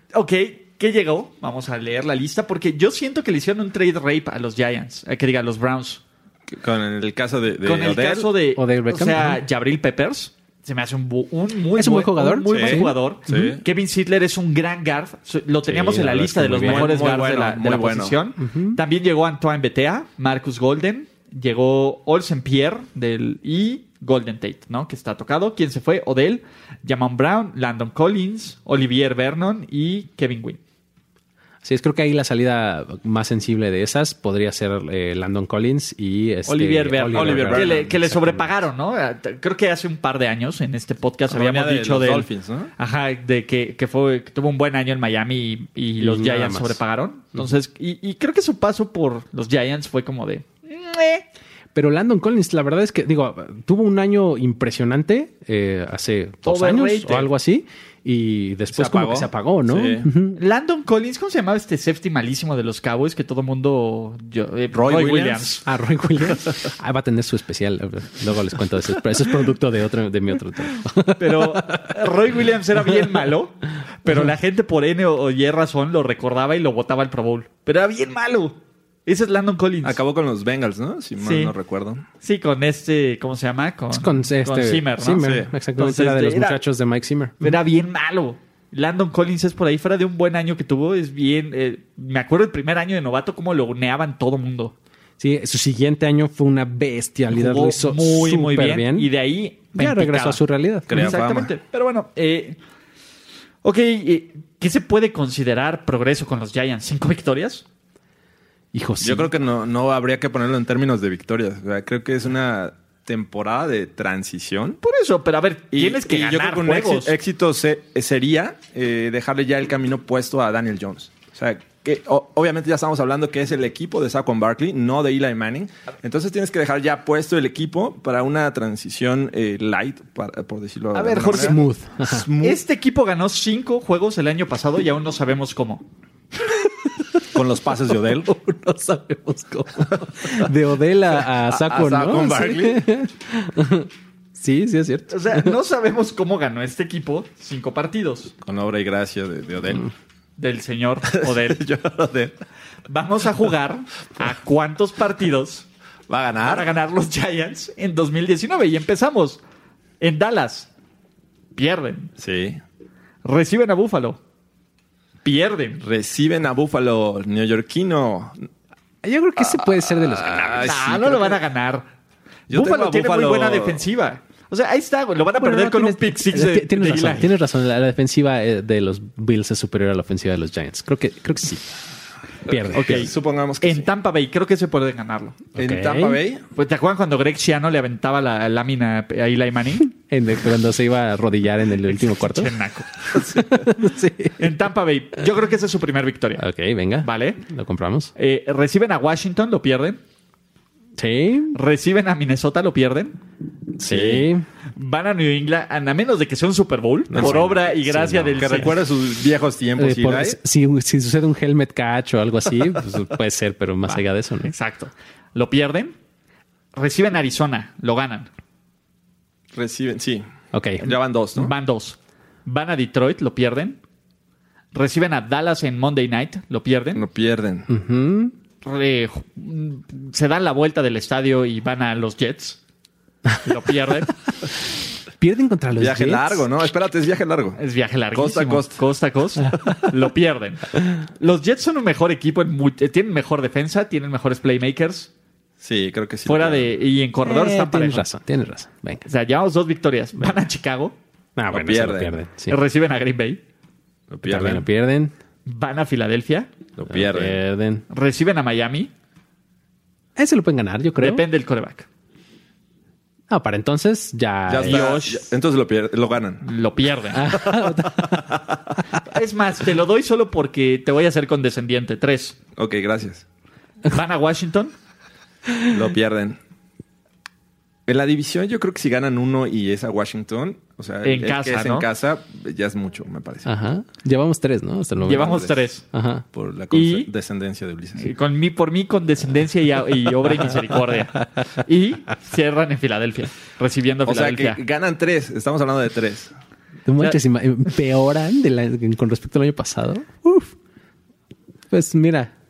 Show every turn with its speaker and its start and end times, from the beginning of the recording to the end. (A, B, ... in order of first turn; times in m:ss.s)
0:00.1-0:06.0 A
0:06.5-0:08.3 B
0:07.6-0:30.6 A
0:08.6-0:09.4 C
0:11.8-0:13.6 C
0:12.5-0:13.6 B
0:15.6-0:17.0 C
0:16.6-0:18.2 B
0:18.4-0:18.8 C
0:31.6-0:38.6 C
0:36.5-0:51.2 A
0:36.9-0:38.0 B
0:41.3-0:42.7 B
0:46.0-0:46.8 C
0:51.8-1:00.4 C
0:56.5-0:57.3 A
0:58.7-1:00.1 B
1:00.4-1:05.6 A
1:04.7-1:05.6 B
1:05.7-1:12.1 C
1:11.2-1:20.0 A
1:19.8-1:22.0 B
1:21.2-1:21.5 A
1:22.2-1:26.6 A
1:23.9-1:27.6 C
1:25.2-1:25.5 B
1:27.4-1:34.7 A
1:35.2-1:39.1 C
1:37.3-1:42.6 A
1:39.8-1:41.2 C
1:40.9-1:41.5 B
1:43.6-1:47.6 A
1:48.7-1:49.3 C
1:49.0-1:54.8 B
1:54.8-1:57.2 A
1:55.7-2:12.6 B
2:11.0-2:11.6 A
2:11.0-2:12.3 C
2:12.4-2:15.9 A
2:17.3-2:18.3 B
2:18.1-2:25.6 C
2:21.4-2:22.9 B
2:25.1-2:28.3 A
2:28.4-2:29.9 B
2:30.4-2:31.7 A
2:31.1-2:32.3 B
2:32.9-2:35.7 A
2:36.1-2:36.7 B
2:36.4-2:39.4 A
2:40.0-2:40.7 A
2:41.6-2:42.1 A
2:42.2-2:42.6 B
2:43.2-2:44.2 A
2:45.2-2:45.8 A
2:45.8-2:48.4 B
2:49.0-2:50.8 C
2:49.4-2:51.4 B
2:50.6-2:51.9 A
2:52.5-2:53.8 B
2:52.5-2:57.3 A
2:55.4-3:01.8 C
3:02.4-3:03.1 C
3:02.5-3:03.9 B
3:02.7-3:05.4 A
3:05.6-3:06.2 C
3:05.6-3:06.4 B
3:06.6-3:09.9 A
3:09.9-3:14.4 C
3:11.9-3:12.9 A
3:14.4-3:16.4 A
3:16.4-3:18.1 C
3:17.0-3:17.4 A
3:18.2-3:20.0 A
3:21.0-3:21.6 C
3:21.5-3:23.2 A
3:23.8-3:24.5 C
3:23.9-3:24.3 B
3:24.8-3:28.8 A
3:27.1-3:28.7 C
3:27.1-3:27.5 B
3:28.4-3:30.4 B
3:29.8-3:34.5 C
3:33.9-3:36.0 A
3:36.7-3:38.3 A
3:39.5-3:40.3 B
3:40.5-3:40.8 C
3:40.8-3:41.5 B
3:40.8-3:43.8 A
3:44.7-3:47.0 A
3:47.0-3:47.7 B
3:47.7-3:48.3 C
3:48.6-3:52.6 A
3:53.4-3:54.2 A
3:55.2-3:56.5 C
3:55.8-3:57.6 B
3:57.6-4:05.1 A
3:58.1-3:58.8 B
4:05.6-4:06.7 B
4:06.3-4:08.1 A
4:07.2-4:09.0 C
4:09.1-4:11.0 A
4:11.4-4:12.6 C
4:11.5-4:12.2 B
4:12.5-4:13.4 A
4:14.1-4:14.6 B
4:14.2-4:15.2 C
4:15.5-4:16.5 A
4:16.8-4:17.4 B
4:16.9-4:17.8 C
4:17.9-4:18.9 A
4:20.2-4:21.2 C
4:21.0-4:21.9 A
4:23.3-4:24.9 C
4:24.5-4:26.5 B
4:24.6-4:25.3 A
4:26.4-4:27.4 A
4:27.1-4:28.3 C
4:29.0-4:32.4 A
4:32.6-4:33.2 B
4:33.9-4:34.7 A
4:35.6-4:36.4 B
4:37.9-4:43.5 B
4:41.0-4:41.9 A
4:43.4-4:46.2 C
4:45.0-4:45.8 A
4:45.1-4:45.6 B
4:46.3-4:48.1 B
4:46.7-4:47.1 A
4:48.0-4:54.6 A
4:54.1-4:56.3 B
4:56.9-5:00.5 C
5:01.7-5:02.3 C